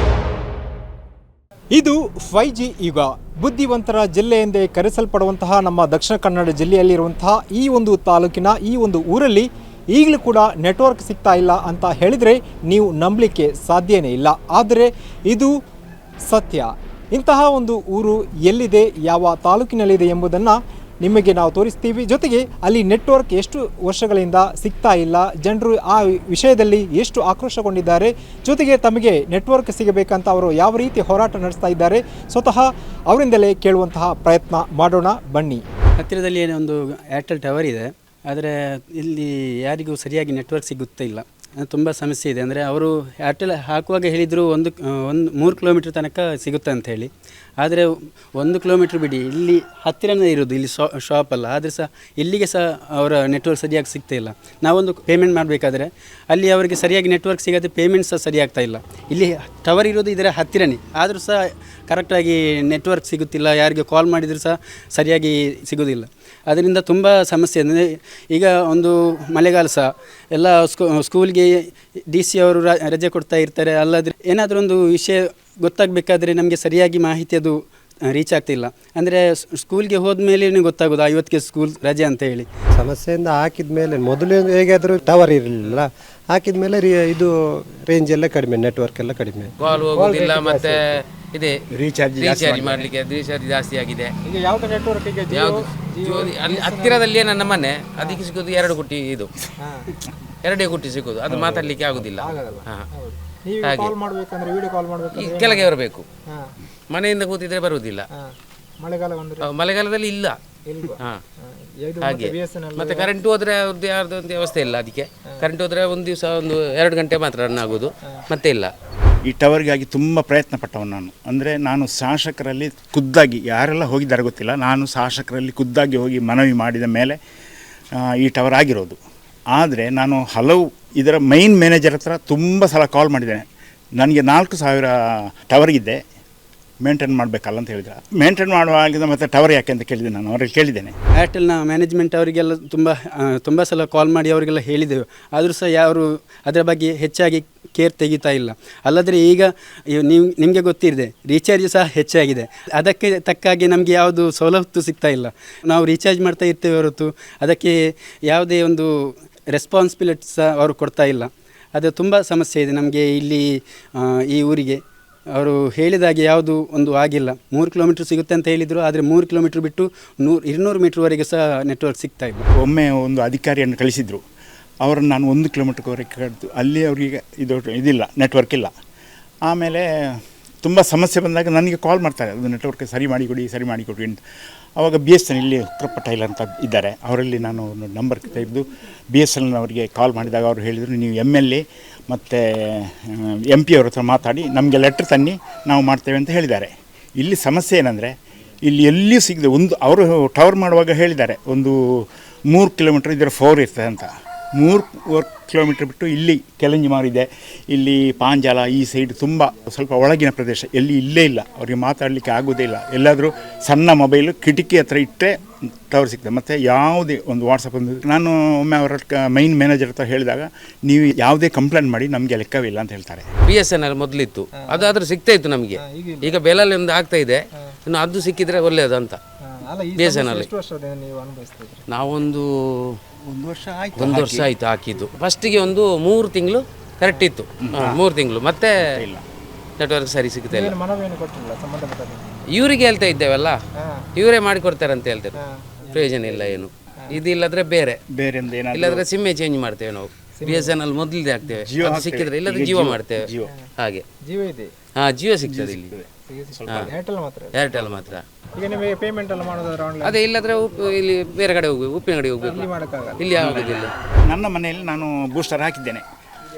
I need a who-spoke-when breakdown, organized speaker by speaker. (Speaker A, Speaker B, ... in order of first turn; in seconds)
Speaker A: 1.7-15.5, 16.3-35.6, 94.2-97.1, 99.6-99.9, 102.2-105.7, 108.8-109.5, 110.7-113.1, 224.7-224.9, 225.8-226.4, 229.5-231.8, 240.5-242.4, 243.8-244.1, 245.4-246.4, 250.4-250.8, 254.2-254.7, 256.3-257.6, 258.6-260.2, 262.4-263.3
Speaker B: 36.0-82.5, 141.2-172.5
Speaker C: 82.7-91.0
Speaker D: 89.6-91.6, 92.2-94.1, 95.3-99.3, 100.4-102.8, 103.6-103.9, 105.2-106.1, 106.9-108.1, 109.4-110.4, 112.0-118.7, 223.5-229.2, 230.0-230.5, 231.9-233.0, 234.0-238.9, 239.8-240.7, 242.5-243.6, 244.2-245.4, 245.9-248.0, 248.7-253.3, 253.8-254.0, 255.0-255.9, 257.5-258.2, 260.0-263.9
Speaker E: 91.7-92.9, 101.3-101.8, 119.3-127.2, 128.0-129.0, 129.5-133.4, 134.0-136.0, 136.8-140.9, 172.6-174.2, 174.8-178.7, 179.5-184.2, 184.8-215.3, 215.9-223.3, 233.3-234.5, 237.6-238.0, 238.8-239.2, 248.1-249.1, 251.6-253.5, 255.5-256.9, 263.4-266.0